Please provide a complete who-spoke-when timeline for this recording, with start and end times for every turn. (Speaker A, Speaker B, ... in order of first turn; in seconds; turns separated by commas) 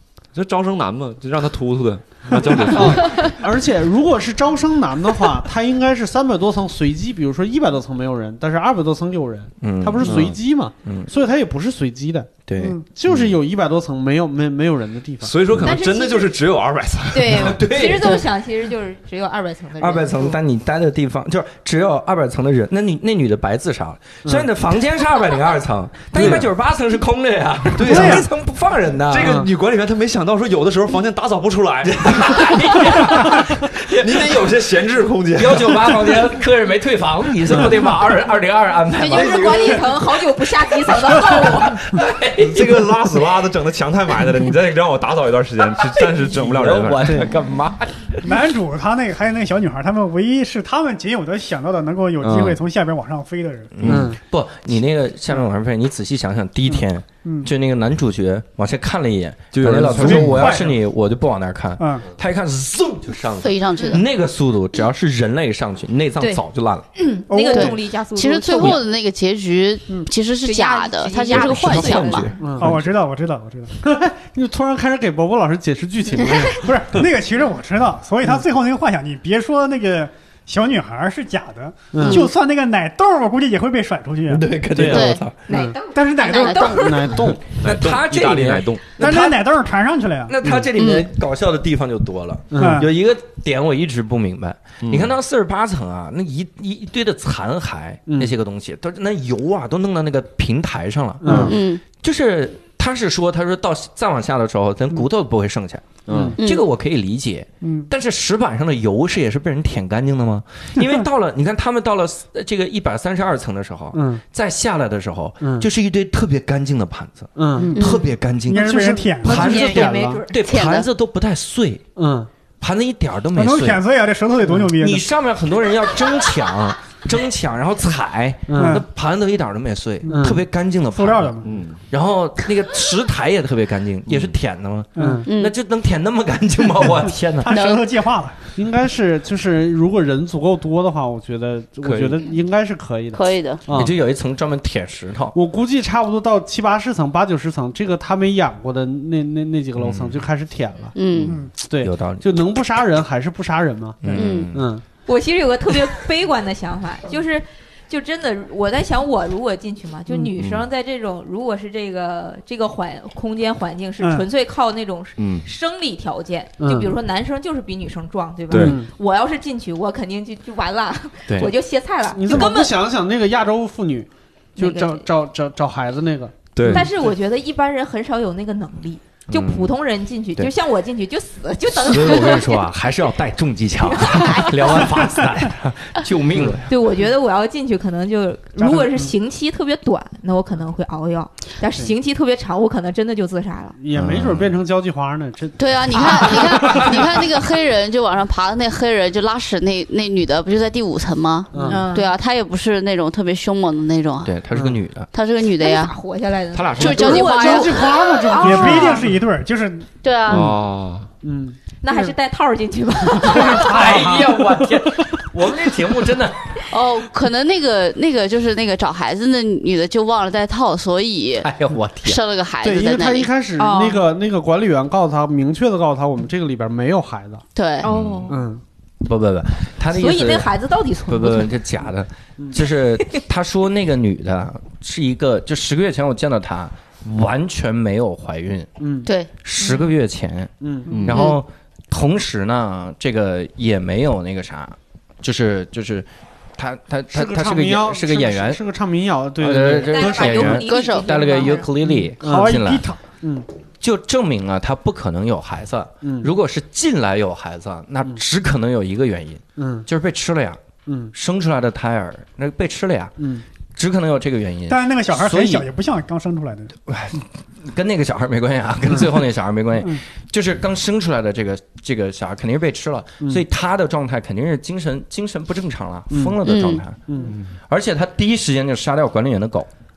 Speaker A: 0.3-3.3, Speaker B: 2.3-15.3, Speaker C: 9.6-11.1, Speaker A: 10.0-10.3, Speaker C: 12.5-12.8, Speaker A: 15.2-17.6, Speaker D: 15.6-16.3, Speaker D: 17.1-20.3, Speaker C: 17.3-18.2, Speaker C: 19.8-29.4, Speaker A: 26.1-26.4, Speaker A: 27.7-28.2, Speaker E: 27.9-28.2, Speaker A: 29.1-36.2, Speaker B: 29.2-29.5, Speaker C: 31.8-34.5, Speaker C: 35.3-40.0, Speaker D: 39.0-41.8, Speaker A: 39.1-39.5, Speaker C: 40.8-43.0, Speaker A: 42.4-47.2, Speaker C: 46.0-48.4, Speaker E: 48.2-53.7, Speaker A: 52.2-52.6, Speaker C: 53.8-66.8, Speaker A: 53.8-54.1, Speaker B: 53.8-54.2, Speaker E: 57.2-57.5, Speaker A: 59.5-60.6, Speaker E: 60.0-60.7, Speaker E: 61.8-62.0, Speaker F: 63.4-64.0, Speaker D: 63.8-64.0, Speaker D: 67.0-68.8, Speaker E: 67.3-67.7, Speaker F: 67.5-72.3, Speaker D: 70.4-72.4, Speaker C: 71.3-72.8, Speaker B: 72.4-72.8, Speaker E: 72.6-73.8, Speaker B: 73.8-77.1, Speaker E: 76.5-84.5, Speaker B: 81.9-82.3, Speaker F: 82.0-82.3, Speaker C: 84.3-85.4, Speaker B: 84.7-85.8, Speaker F: 84.8-85.2, Speaker D: 85.5-87.2, Speaker E: 85.9-86.9, Speaker F: 86.3-86.5, Speaker B: 86.4-87.6, Speaker A: 87.5-88.9, Speaker C: 87.6-89.5, Speaker E: 89.0-90.3, Speaker C: 90.3-121.8, Speaker B: 90.4-90.7, Speaker F: 90.7-91.1, Speaker B: 92.5-92.9, Speaker E: 92.5-92.9, Speaker A: 94.8-95.1, Speaker B: 98.1-98.3, Speaker B: 101.2-101.6, Speaker F: 101.3-101.8, Speaker A: 106.1-106.4, Speaker B: 106.1-106.4, Speaker F: 106.4-106.6, Speaker E: 107.6-107.9, Speaker B: 113.9-114.2, Speaker B: 115.4-115.7, Speaker B: 117.3-117.8, Speaker E: 117.6-119.5, Speaker F: 117.7-118.0, Speaker B: 118.5-120.2, Speaker D: 119.2-120.4, Speaker F: 120.3-120.9, Speaker B: 122.0-122.3, Speaker C: 122.6-123.8, Speaker E: 123.3-125.0, Speaker C: 124.7-131.3, Speaker B: 128.5-128.8, Speaker E: 128.6-128.8, Speaker B: 130.1-130.4, Speaker E: 130.9-131.6, Speaker A: 131.4-131.8, Speaker C: 131.9-137.6, Speaker A: 134.1-134.3, Speaker E: 134.9-135.3, Speaker B: 134.9-135.3, Speaker F: 135.3-135.5, Speaker E: 137.4-138.4, Speaker F: 137.5-137.8, Speaker B: 138.6-144.0, Speaker F: 143.1-143.6, Speaker C: 143.7-145.3, Speaker B: 145.3-150.9, Speaker A: 149.8-150.2, Speaker F: 150.9-151.4, Speaker C: 151.2-152.3, Speaker E: 151.3-151.5, Speaker B: 151.5-154.8, Speaker C: 154.0-154.7, Speaker F: 154.1-154.5, Speaker D: 155.1-172.8, Speaker A: 160.4-160.6, Speaker E: 164.0-164.2, Speaker A: 165.2-165.4, Speaker B: 166.6-167.0, Speaker A: 168.5-168.8, Speaker B: 168.5-168.9, Speaker C: 171.3-171.5, Speaker B: 172.1-176.9, Speaker D: 174.6-175.0, Speaker A: 176.5-176.9, Speaker D: 176.7-182.6, Speaker C: 179.3-179.7, Speaker C: 181.7-186.7, Speaker D: 183.8-185.0, Speaker D: 186.7-193.8, Speaker B: 193.8-197.2, Speaker C: 193.9-194.5, Speaker F: 195.6-204.4, Speaker B: 201.5-201.9, Speaker D: 201.7-202.1, Speaker C: 204.2-205.1, Speaker B: 204.5-204.8, Speaker F: 205.1-205.9, Speaker D: 205.6-209.1, Speaker A: 206.5-207.3, Speaker F: 206.8-207.9, Speaker B: 206.9-209.2, Speaker E: 208.3-209.9, Speaker F: 210.0-210.6, Speaker A: 210.3-211.1, Speaker B: 211.2-212.1, Speaker D: 211.8-214.0, Speaker C: 213.3-216.6, Speaker B: 213.3-214.4, Speaker F: 216.7-221.5, Speaker C: 221.4-222.2, Speaker F: 222.0-223.3, Speaker B: 222.6-227.4, Speaker D: 223.6-224.0, Speaker F: 227.5-227.8, Speaker D: 227.8-228.4, Speaker A: 227.8-228.3, Speaker B: 228.3-228.6, Speaker C: 229.0-230.5, Speaker D: 229.9-231.6, Speaker C: 231.1-238.7, Speaker B: 238.8-239.1, Speaker C: 239.4-248.6, Speaker D: 239.6-239.8, Speaker B: 240.6-241.1, Speaker A: 240.9-241.3, Speaker F: 241.1-241.4, Speaker B: 247.1-250.6, Speaker C: 249.4-252.8, Speaker D: 249.6-251.7, Speaker F: 250.5-251.6, Speaker B: 251.8-252.6, Speaker E: 252.2-253.0, Speaker B: 253.1-253.4, Speaker C: 253.8-263.2, Speaker B: 256.0-256.3, Speaker B: 259.6-259.9, Speaker B: 260.9-261.1, Speaker B: 263.2-263.4, Speaker C: 263.7-265.6, Speaker E: 264.7-266.7, Speaker C: 266.9-277.0, Speaker B: 276.1-276.4, Speaker F: 276.4-276.8, Speaker B: 277.1-277.4, Speaker C: 277.7-279.7